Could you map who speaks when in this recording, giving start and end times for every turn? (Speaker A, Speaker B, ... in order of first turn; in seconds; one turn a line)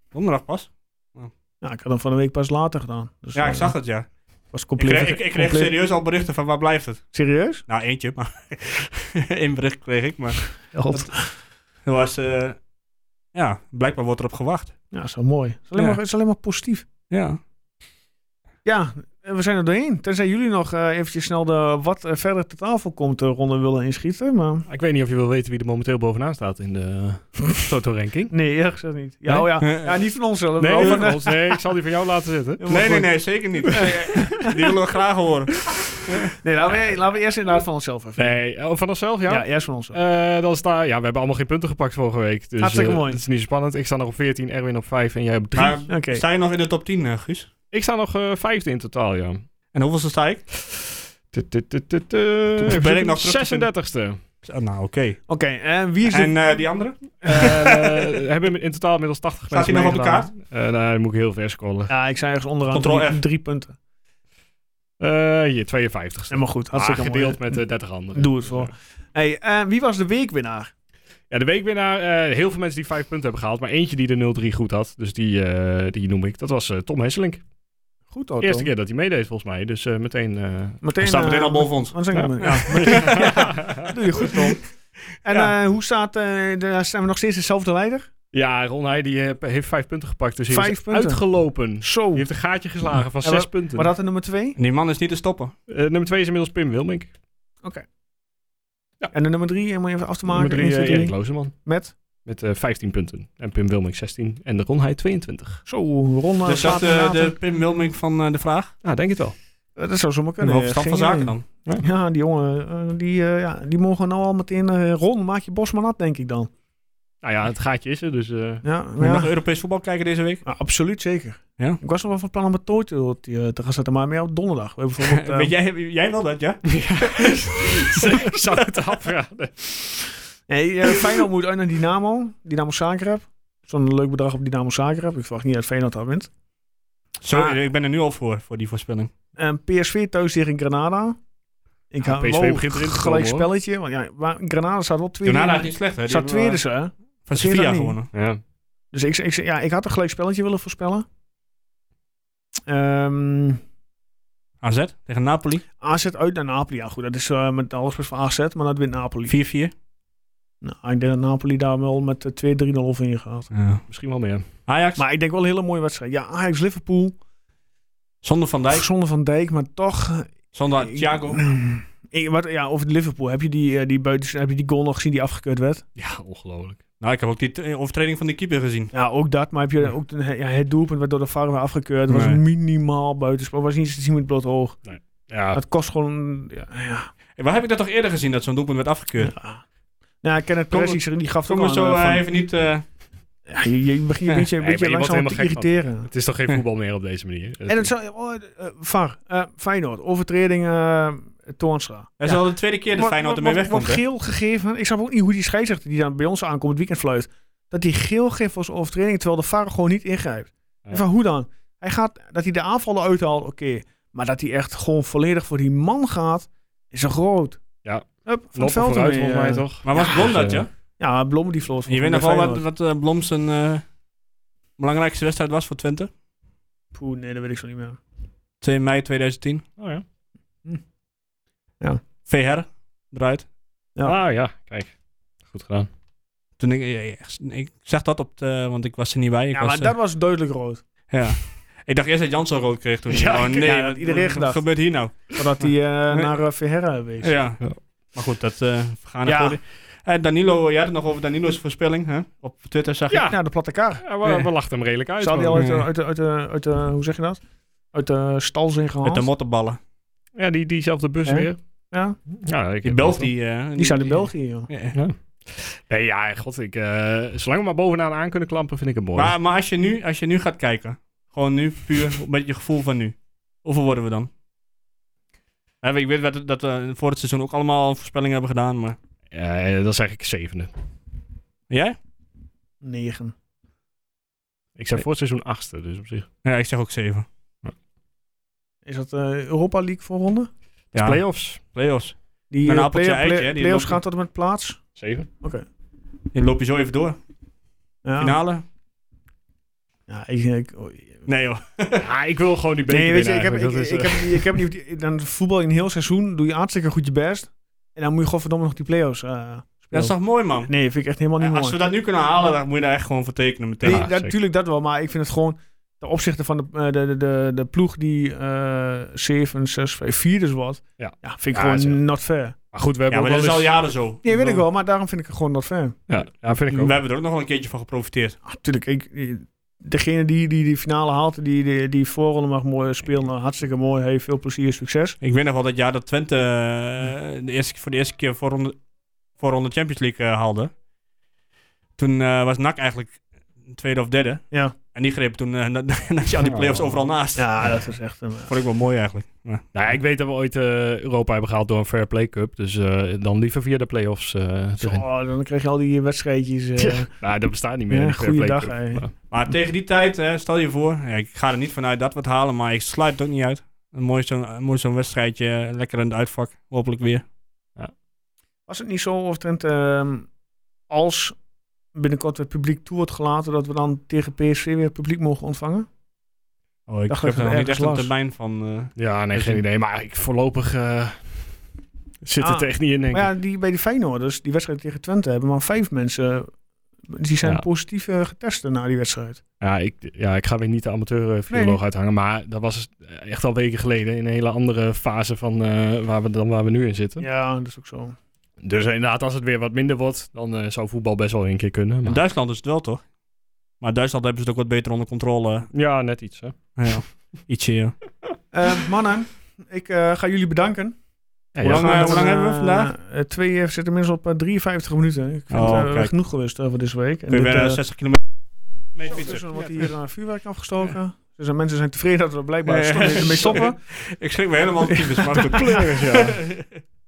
Speaker A: 0.1-1.3
Speaker B: 1.6-3.7
Speaker A: 3.3-4.1
Speaker B: 4.5-5.7
Speaker A: 4.8-7.1
Speaker B: 7.1-7.6
Speaker A: 7.7-11.3
Speaker B: 10.7-11.3
Speaker A: 11.8-12.6
Speaker A: 13.3-14.8
Speaker B: 14.9-16.9
Speaker A: 17.1-17.4
Speaker B: 18.6-24.7
Speaker C: 24.7-28.3
Speaker B: 28.3-31.6
Speaker C: 29.3-29.6
Speaker C: 30.6-32.7
Speaker B: 32.6-33.2
Speaker A: 32.7-36.3
Speaker B: 33.7-34.5
Speaker B: 36.4-38.4
Speaker C: 38.2-45.9
Speaker B: 39.3-40.0
Speaker B: 42.6-43.2
Speaker A: 45.5-47.5
Speaker B: 45.9-46.2
Speaker C: 47.7-49.4
Speaker A: 49.7-50.4
Speaker C: 50.7-54.2
Speaker A: 52.6-53.7
Speaker A: 54.4-55.2
Speaker B: 55.3-56.3
Speaker A: 56.0-58.0
Speaker C: 57.2-61.9
Speaker A: 59.5-60.3
Speaker B: 61.9-63.8
Speaker A: 62.7-63.2
Speaker C: 65.0-68.7
Speaker B: 66.3-67.6
Speaker B: 68.1-70.7
Speaker C: 71.3-77.4
Speaker B: 78.1-78.7
Speaker C: 78.4-80.8
Speaker B: 80.8-84.6
Speaker A: 81.0-83.6
Speaker C: 82.1-83.9
Speaker B: 85.2-88.1
Speaker C: 88.3-93.9
Speaker B: 90.5-92.3
Speaker B: 93.2-94.6
Speaker A: 94.5-95.5
Speaker C: 95.7-97.1
Speaker B: 99.1-101.9
Speaker C: 100.2-101.5
Speaker C: 102.2-105.6
Speaker B: 105.7-107.3
Speaker A: 106.5-108.7
Speaker C: 108.8-109.3
Speaker B: 109.8-116.5
Speaker A: 110.4-111.4
Speaker C: 117.2-118.6
Speaker B: 118.6-119.3
Speaker A: 119.0-120.4
Speaker B: 120.4-125.5
Speaker A: 125.0-128.6
Speaker C: 126.7-130.0
Speaker B: 130.5-136.3
Speaker A: 137.2-139.1
Speaker B: 137.3-137.6
Speaker B: 139.4-141.2
Speaker B: 141.9-148.0
Speaker C: 142.0-143.5
Speaker A: 145.2-146.6
Speaker A: 147.3-148.1
Speaker C: 148.1-148.4
Speaker B: 148.9-151.1
Speaker B: 152.7-153.6
Speaker A: 154.6-155.6
Speaker B: 155.8-159.3
Speaker A: 159.2-159.7
Speaker B: 160.6-163.5
Speaker A: 163.5-163.8
Speaker C: 163.9-164.4
Speaker A: 164.7-165.0
Speaker B: 165.0-167.2
Speaker A: 168.2-168.8
Speaker B: 168.7-175.8
Speaker A: 170.5-171.4
Speaker C: 176.0-176.8
Speaker A: 177.0-178.9
Speaker B: 178.9-184.8
Speaker A: 182.1-182.4
Speaker C: 184.8-185.6
Speaker B: 185.5-187.1
Speaker A: 187.4-189.3
Speaker B: 189.2-189.6
Speaker B: 190.2-192.2
Speaker A: 190.7-192.8
Speaker B: 193.5-196.1
Speaker C: 194.6-197.9
Speaker B: 197.7-217.6
Speaker A: 202.2-204.0
Speaker C: 217.8-220.7
Speaker B: 218.2-220.2
Speaker A: 219.8-220.7
Speaker B: 221.0-222.6
Speaker A: 221.9-223.8
Speaker A: 224.8-226.1
Speaker B: 226.9-228.0
Speaker A: 228.6-229.6
Speaker C: 229.8-230.0
Speaker A: 232.3-233.4
Speaker C: 234.0-234.9
Speaker C: 235.4-235.9
Speaker A: 236.6-239.9
Speaker B: 239.5-240.8
Speaker A: 241.1-245.4
Speaker C: 243.1-243.7
Speaker B: 243.6-244.6
Speaker B: 245.3-247.3
Speaker A: 247.2-253.2
Speaker B: 249.2-249.6
Speaker C: 253.1-253.4
Speaker B: 253.3-254.0
Speaker C: 254.0-255.8
Speaker B: 255.2-259.3
Speaker A: 259.0-259.8
Speaker C: 260.3-261.6
Speaker B: 261.2-262.2
Speaker C: 262.3-263.3
Speaker A: 262.8-265.0
Speaker B: 263.8-264.7
Speaker C: 264.9-269.3
Speaker A: 269.1-274.3
Speaker A: 275.8-279.0
Speaker C: 279.3-280.7
Speaker A: 281.7-282.0
Speaker B: 282.8-283.3
Speaker C: 284.8-286.3
Speaker A: 286.4-287.2
Speaker B: 288.8-290.5
Speaker C: 290.9-291.6
Speaker A: 290.9-294.0
Speaker B: 292.5-294.8
Speaker C: 294.9-295.3
Speaker A: 296.3-297.2
Speaker B: 298.0-298.4
Speaker A: 298.2-298.6
Speaker B: 300.1-301.1
Speaker A: 301.2-302.1
Speaker C: 302.0-304.6
Speaker B: 302.9-310.1
Speaker A: 309.9-310.7
Speaker B: 310.6-311.8
Speaker A: 311.4-314.1
Speaker C: 313.8-314.3
Speaker B: 313.8-322.6
Speaker C: 321.0-322.0
Speaker C: 322.7-323.7
Speaker A: 323.1-324.2
Speaker B: 324.2-326.0
Speaker C: 324.3-324.6
Speaker C: 326.1-326.9
Speaker A: 326.7-328.4
Speaker B: 328.4-335.2
Speaker A: 335.2-338.8
Speaker A: 339.4-340.7
Speaker A: 342.0-347.7
Speaker B: 346.4-348.5
Speaker A: 348.5-349.6
Speaker C: 349.7-355.0
Speaker B: 354.8-357.1
Speaker C: 356.8-359.1
Speaker B: 357.9-359.0
Speaker A: 359.3-367.2
Speaker B: 368.7-370.3
Speaker B: 370.9-371.4
Speaker B: 371.9-375.9
Speaker A: 376.9-379.6
Speaker B: 377.1-378.1
Speaker C: 378.9-381.6
Speaker C: 382.2-383.3
Speaker B: 382.4-386.5
Speaker B: 387.1-389.4
Speaker C: 389.6-397.3
Speaker B: 391.5-391.8
Speaker B: 397.2-398.1
Speaker C: 398.6-402.2
Speaker A: 402.1-403.0
Speaker A: 403.8-405.7
Speaker C: 405.7-406.9
Speaker A: 406.8-408.0
Speaker B: 408.5-410.9
Speaker C: 411.5-412.2
Speaker B: 411.6-417.8
Speaker A: 411.6-412.9
Speaker A: 415.5-416.1
Speaker A: 417.3-418.2
Speaker A: 418.9-419.9
Speaker B: 419.1-423.8
Speaker A: 422.6-426.7
Speaker B: 424.9-425.8
Speaker C: 425.4-426.4